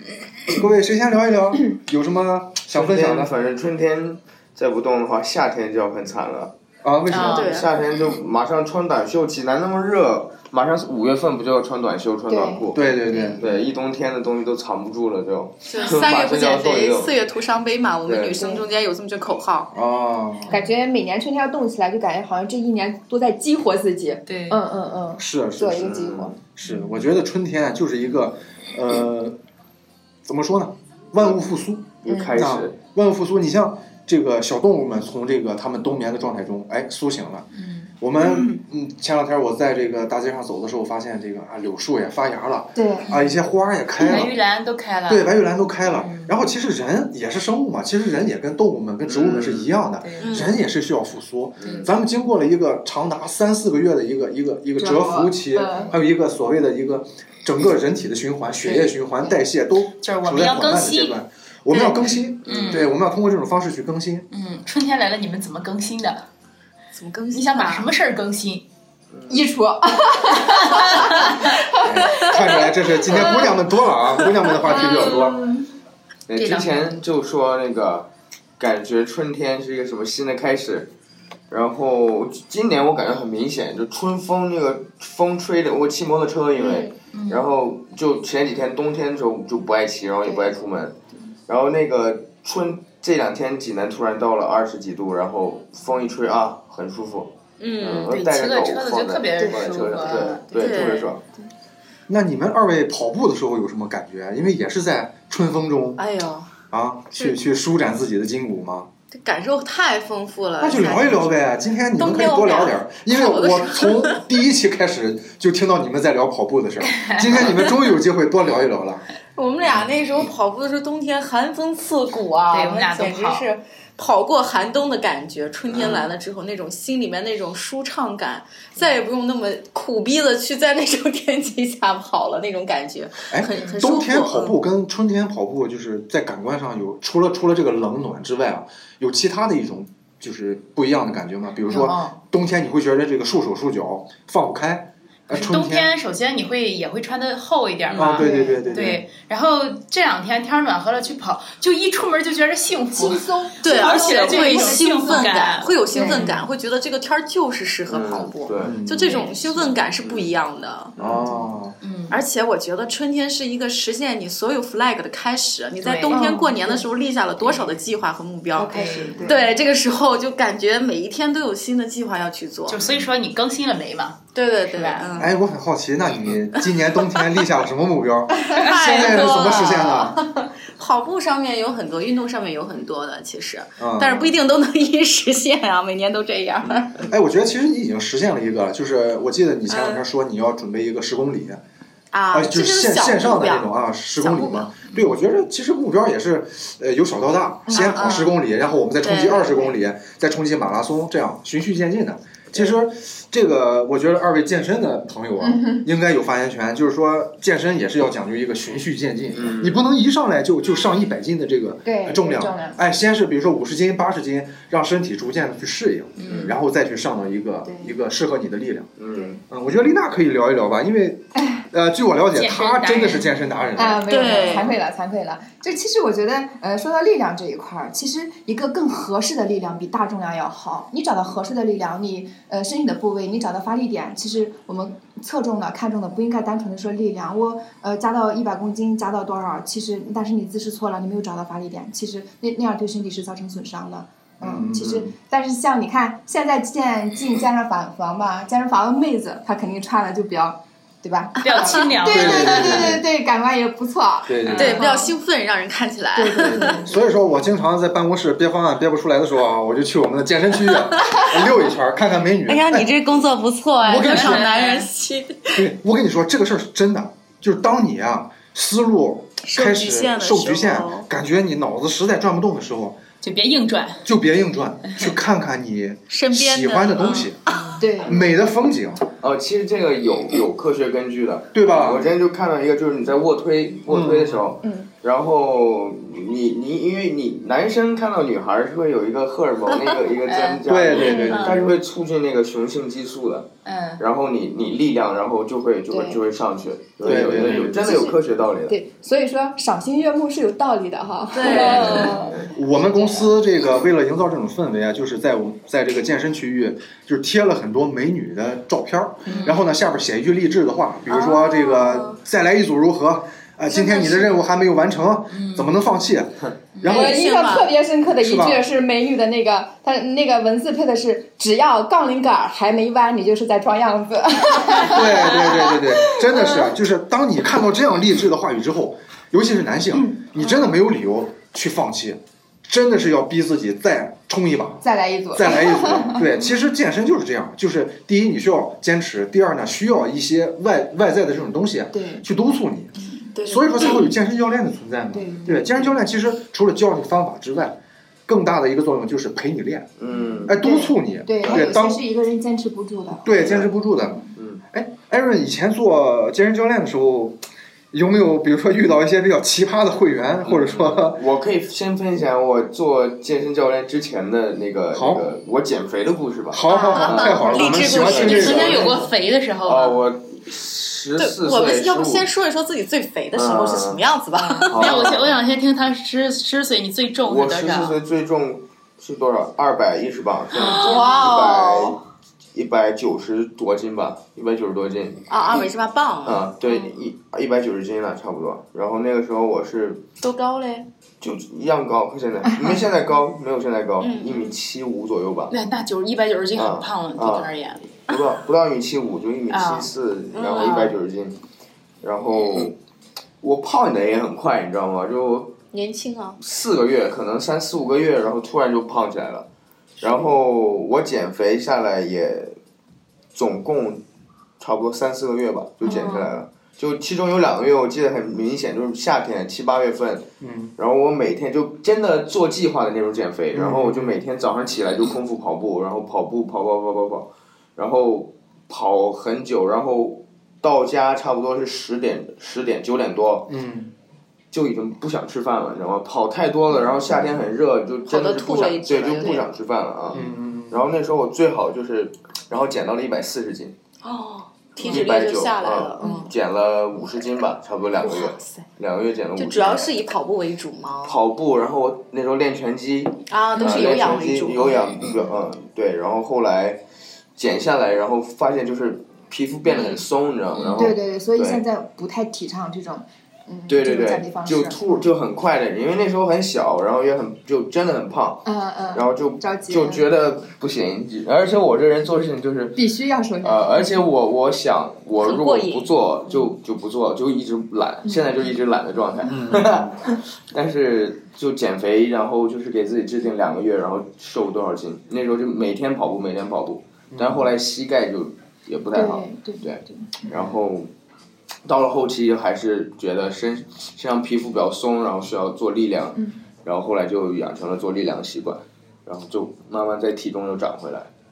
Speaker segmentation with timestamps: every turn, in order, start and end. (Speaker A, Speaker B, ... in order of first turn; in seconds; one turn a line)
Speaker A: 0.5-3.3
Speaker B: 2.7-6.5
Speaker A: 6.8-7.5
Speaker C: 7.1-7.5
Speaker B: 7.2-17.2
Speaker D: 7.2-7.7
Speaker E: 12.3-12.7
Speaker A: 12.7-13.4
Speaker D: 15.7-19.7
Speaker B: 18.0-18.4
Speaker E: 18.4-18.6
Speaker A: 19.7-20.5
Speaker E: 20.5-26.3
Speaker C: 24.3-24.6
Speaker A: 25.2-25.9
Speaker B: 25.8-26.4
Speaker A: 26.6-29.4
Speaker A: 30.2-44.4
Speaker B: 32.0-32.8
Speaker E: 32.1-32.3
Speaker C: 37.5-38.5
Speaker E: 42.8-43.1
Speaker C: 43.0-43.4
Speaker C: 44.0-45.3
Speaker A: 45.1-64.3
Speaker C: 45.8-46.3
Speaker B: 49.0-49.7
Speaker C: 50.0-50.5
Speaker D: 50.2-50.5
Speaker B: 51.6-51.9
Speaker C: 51.6-51.9
Speaker E: 54.8-55.9
Speaker E: 58.6-59.4
Speaker C: 60.0-61.2
Speaker D: 61.7-62.2
Speaker B: 62.5-62.9
Speaker C: 62.5-62.9
Speaker C: 64.3-66.2
Speaker D: 66.9-67.9
Speaker C: 67.3-68.6
Speaker E: 69.3-72.5
Speaker C: 70.3-71.5
Speaker A: 71.8-75.4
Speaker D: 74.6-75.5
Speaker C: 74.7-75.3
Speaker B: 76.3-80.9
Speaker C: 76.3-76.8
Speaker B: 81.5-90.9
Speaker D: 86.5-86.9
Speaker C: 87.1-87.5
Speaker E: 90.2-90.5
Speaker B: 91.5-101.2
Speaker D: 97.6-98.1
Speaker C: 98.1-100.8
Speaker D: 100.5-101.1
Speaker A: 102.1-106.0
Speaker D: 106.0-106.5
Speaker A: 106.7-108.9
Speaker D: 109.1-111.3
Speaker A: 110.6-119.0
Speaker D: 111.9-114.2
Speaker C: 116.9-117.2
Speaker D: 119.3-134.6
Speaker C: 122.5-123.5
Speaker B: 125.7-126.1
Speaker A: 133.3-145.9
Speaker C: 133.6-133.9
Speaker C: 141.7-142.2
Speaker C: 145.3-156.4
Speaker A: 147.9-149.0
Speaker E: 148.1-148.8
Speaker E: 152.9-156.3
Speaker D: 153.6-160.9
Speaker B: 157.9-158.8
Speaker A: 158.6-159.2
Speaker C: 159.0-159.7
Speaker E: 159.1-159.3
Speaker B: 160.0-160.3
Speaker B: 161.0-161.2
Speaker A: 161.0-161.8
Speaker C: 161.8-162.2
Speaker D: 162.1-172.8
Speaker C: 165.8-166.5
Speaker E: 166.1-166.8
Speaker E: 168.6-169.5
Speaker C: 168.6-169.5
Speaker C: 172.7-175.2
Speaker D: 174.3-175.3
Speaker A: 175.2-180.2
Speaker D: 178.4-187.1
Speaker C: 178.5-179.7
Speaker A: 183.8-184.3
Speaker B: 186.6-187.0
Speaker A: 187.1-191.6
Speaker D: 189.7-190.0
Speaker D: 192.1-194.7
Speaker A: 192.3-218.9
Speaker E: 197.7-198.0
Speaker D: 197.7-198.3
Speaker D: 199.0-199.7
Speaker E: 205.4-205.8
Speaker B: 209.3-209.8
Speaker E: 211.8-212.8
Speaker C: 216.2-216.5
Speaker B: 216.2-216.5
Speaker E: 217.6-217.9
Speaker B: 219.0-219.4
Speaker A: 219.5-224.7
Speaker C: 222.3-223.3
Speaker E: 223.8-255.0
Speaker D: 224.1-224.7
Speaker A: 244.4-245.1
Speaker C: 251.4-252.9
Speaker D: 251.5-251.8
Speaker A: 252.1-253.0
Speaker A: 254.2-254.8
Speaker C: 254.4-255.1
Speaker D: 254.5-256.9
Speaker A: 256.1-262.9
Speaker D: 262.5-265.6
Speaker A: 263.8-264.5
Speaker C: 264.0-264.9
Speaker A: 265.5-273.0
Speaker D: 269.4-271.1
Speaker C: 273.2-274.0
Speaker A: 274.0-277.4
Speaker D: 276.1-277.7
Speaker E: 277.8-278.1
Speaker A: 278.0-279.0
Speaker B: 279.2-298.8
Speaker A: 281.5-282.1
Speaker A: 283.9-284.5
Speaker E: 284.6-284.9
Speaker C: 290.2-291.7
Speaker A: 290.6-291.7
Speaker D: 291.0-291.3
Speaker C: 293.6-294.0
Speaker E: 295.9-296.2
Speaker A: 297.0-298.0
Speaker E: 297.6-302.3
Speaker D: 301.3-302.3
Speaker B: 301.4-302.2
Speaker A: 301.4-317.2
Speaker C: 301.7-302.3
Speaker C: 309.2-309.6
Speaker D: 311.1-312.2
Speaker C: 315.3-315.7
Speaker C: 316.8-317.1
Speaker D: 316.8-317.7
Speaker E: 316.9-326.6
Speaker A: 318.2-318.6
Speaker A: 324.8-349.9
Speaker E: 334.8-336.3
Speaker E: 341.9-342.2
Speaker D: 343.3-344.0
Speaker E: 345.1-345.9
Speaker B: 350.0-350.6
Speaker A: 350.4-352.0
Speaker E: 350.6-353.2
Speaker A: 353.2-354.2
Speaker B: 353.4-353.7
Speaker B: 354.4-354.6
Speaker A: 354.7-361.2
Speaker B: 360.4-369.1
Speaker A: 364.9-365.3
Speaker A: 366.5-368.8
Speaker D: 366.7-369.0
Speaker C: 368.0-370.0
Speaker B: 369.6-372.3
Speaker D: 371.2-375.1
Speaker B: 373.3-374.0
Speaker C: 374.4-378.0
Speaker B: 374.7-375.4
Speaker B: 377.2-382.0
Speaker D: 380.5-382.0
Speaker C: 380.7-381.1
Speaker B: 382.5-385.6
Speaker D: 385.3-386.9
Speaker B: 386.2-390.0
Speaker D: 390.2-390.9
Speaker B: 391.2-395.5
Speaker D: 394.0-394.6
Speaker C: 395.5-397.9
Speaker B: 396.6-397.5
Speaker B: 398.1-401.4
Speaker C: 399.5-399.9
Speaker D: 400.3-400.9
Speaker B: 402.0-402.8
Speaker B: 403.4-405.6
Speaker D: 405.7-406.4
Speaker B: 406.4-409.5
Speaker B: 410.0-412.6
Speaker B: 413.3-414.0
Speaker B: 414.6-433.5
Speaker D: 415.8-416.3
Speaker A: 420.4-420.7
Speaker A: 423.5-424.2
Speaker A: 433.5-433.9
Speaker B: 434.5-443.7
Speaker D: 438.1-439.4
Speaker A: 440.1-440.8
Speaker D: 444.0-446.3
Speaker B: 444.8-450.0
Speaker E: 446.0-446.3
Speaker D: 448.0-448.6
Speaker D: 449.4-451.2
Speaker B: 451.0-456.8
Speaker D: 453.3-455.2
Speaker B: 457.4-461.6
Speaker D: 459.6-460.0
Speaker C: 460.6-460.9
Speaker E: 460.8-464.8
Speaker B: 463.7-472.8
Speaker E: 468.4-470.1
Speaker E: 472.8-473.9
Speaker B: 473.4-490.9
Speaker D: 475.2-475.9
Speaker A: 479.3-480.0
Speaker A: 487.1-487.5
Speaker E: 488.9-490.1
Speaker A: 490.2-490.5
Speaker B: 491.6-501.1